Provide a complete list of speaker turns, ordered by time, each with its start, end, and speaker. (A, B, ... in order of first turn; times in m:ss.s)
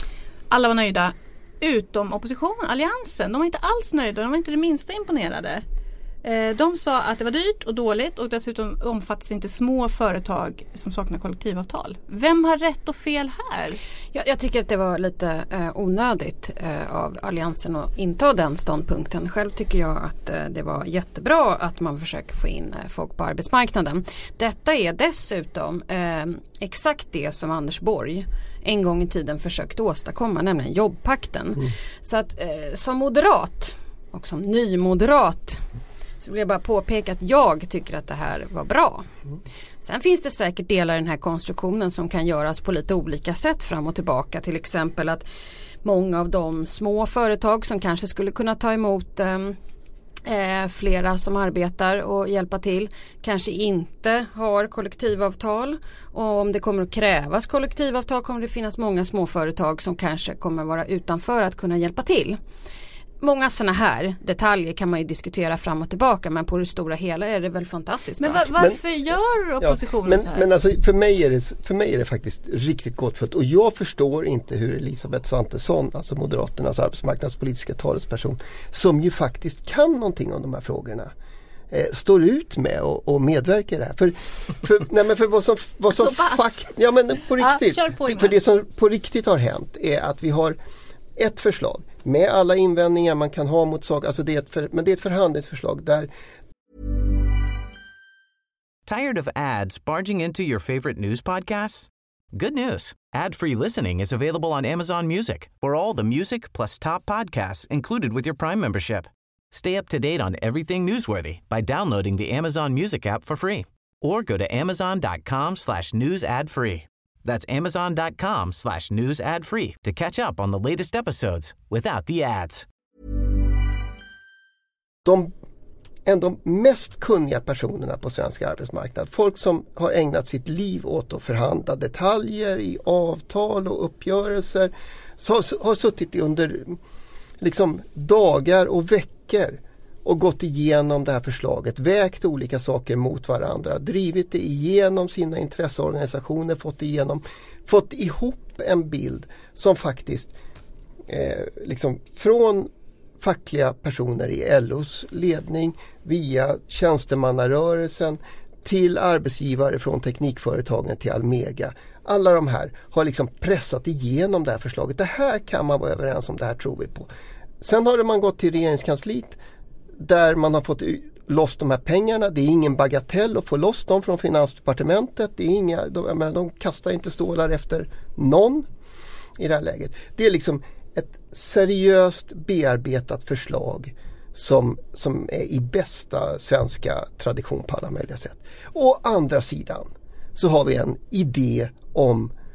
0:00.5-0:05.6 A
0:06.2-0:13.8 A
0:14.1-0:35.6 B
0:36.2-0:39.1 B
0:39.8-0:45.3 B
0:45.8-0:49.6 B
0:50.3-1:02.4 B
1:03.2-1:08.5 B
1:08.2-1:10.5 A
1:09.6-1:21.1 C
1:21.7-1:30.6 C
1:25.9-1:26.7 A
1:27.4-1:28.4 A
1:31.2-1:36.1 C
1:38.9-2:02.7 D
2:05.0-2:05.3 C
2:06.1-2:16.8 C
2:17.4-2:30.3 C
2:31.1-2:47.1 C
2:47.6-2:49.4 C
2:50.0-2:58.7 C
2:59.4-3:12.3 C